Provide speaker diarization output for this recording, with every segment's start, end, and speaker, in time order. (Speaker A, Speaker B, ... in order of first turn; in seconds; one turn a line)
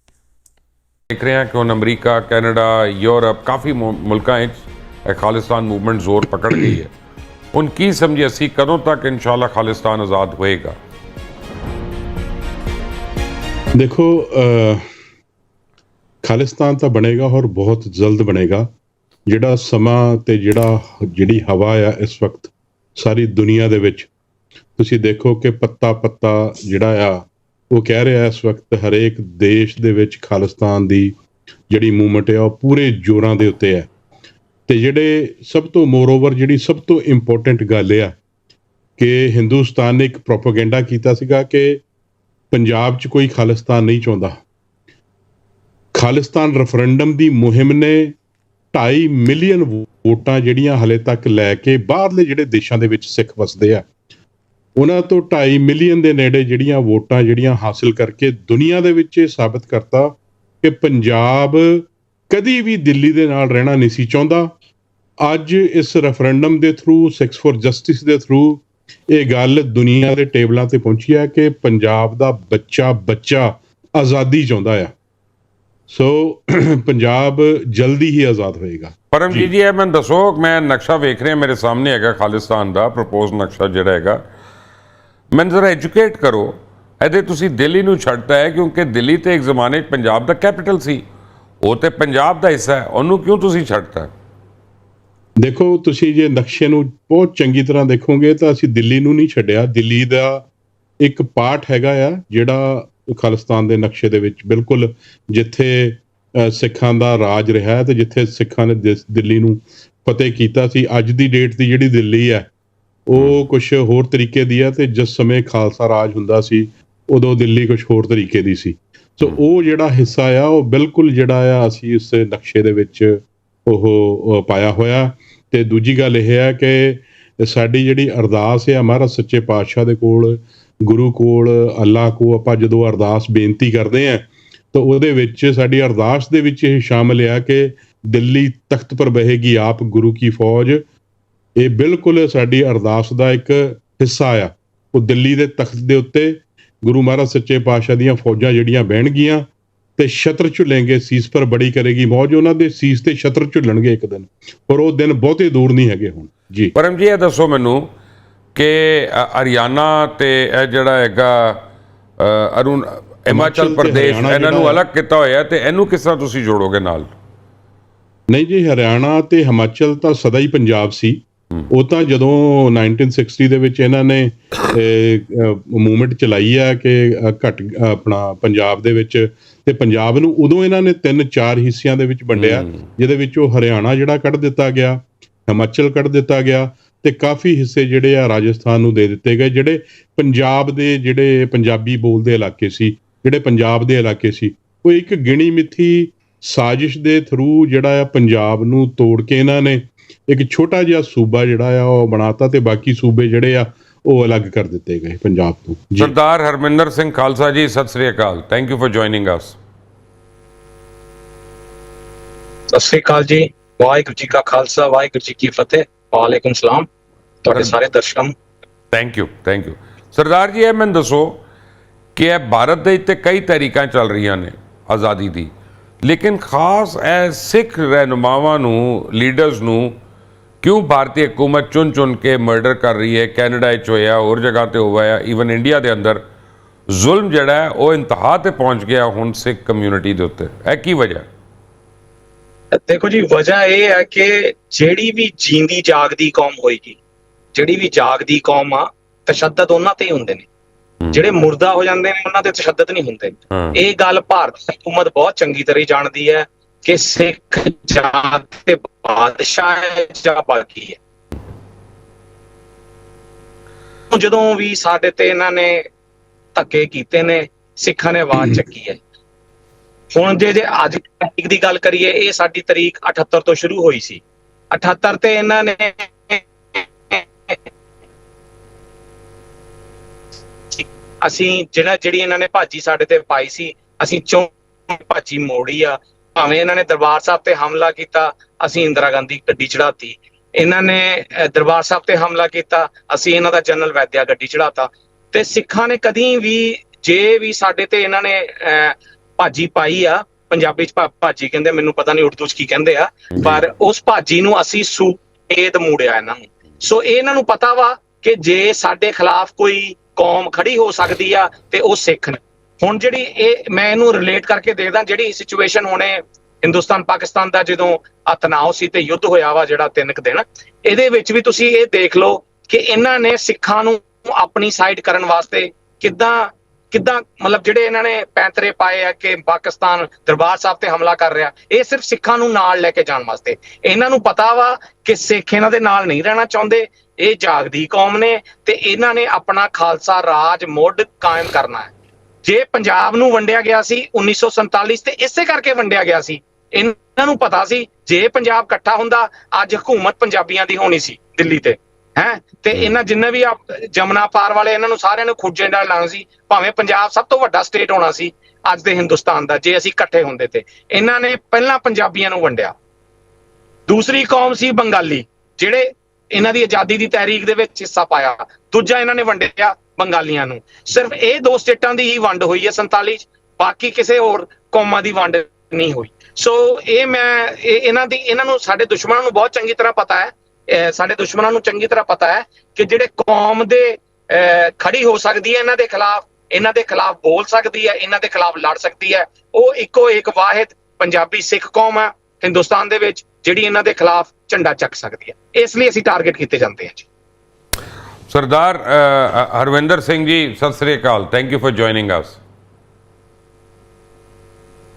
Speaker A: 1.1-6.9
Speaker A: 7.5-10.8
Speaker B: 13.8-14.8
Speaker B: 16.2-18.7
Speaker B: 19.3-24.1
Speaker B: 24.8-31.1
Speaker B: 31.7-33.9
Speaker B: 34.7-38.1
Speaker B: 39.0-41.8
Speaker B: 42.5-44.4
Speaker B: 45.9-48.1
Speaker B: 48.7-53.9
Speaker B: 54.8-64.5
Speaker B: 65.2-74.9
Speaker B: 75.9-79.5
Speaker A: 79.1-84.2
Speaker A: 85.3-91.0
Speaker A: 91.6-94.1
Speaker B: 95.4-100.5
Speaker B: 101.0-112.5
Speaker B: 113.1-140.8
Speaker A: 113.1-113.4
Speaker B: 141.6-156.7
Speaker A: 156.8-157.8
Speaker A: 158.5-161.6
Speaker A: 162.2-167.1
Speaker B: 163.3-164.8
Speaker B: 168.3-206.1
Speaker A: 182.4-182.7
Speaker A: 206.0-209.6
Speaker C: 212.7-216.9
Speaker C: 217.4-218.3
Speaker A: 218.9-221.4
Speaker A: 222.2-225.5
Speaker A: 226.0-229.9
Speaker A: 230.6-236.2
Speaker A: 236.9-241.2
Speaker C: 242.8-247.0
Speaker C: 247.5-250.4
Speaker C: 251.1-261.0
Speaker A: 253.5-253.8
Speaker C: 264.1-265.8
Speaker C: 266.5-269.0
Speaker C: 270.1-277.6
Speaker C: 280.7-341.9
Speaker A: 303.4-303.6
Speaker C: 342.4-362.7
Speaker C: 363.9-397.0
Speaker A: 398.3-402.4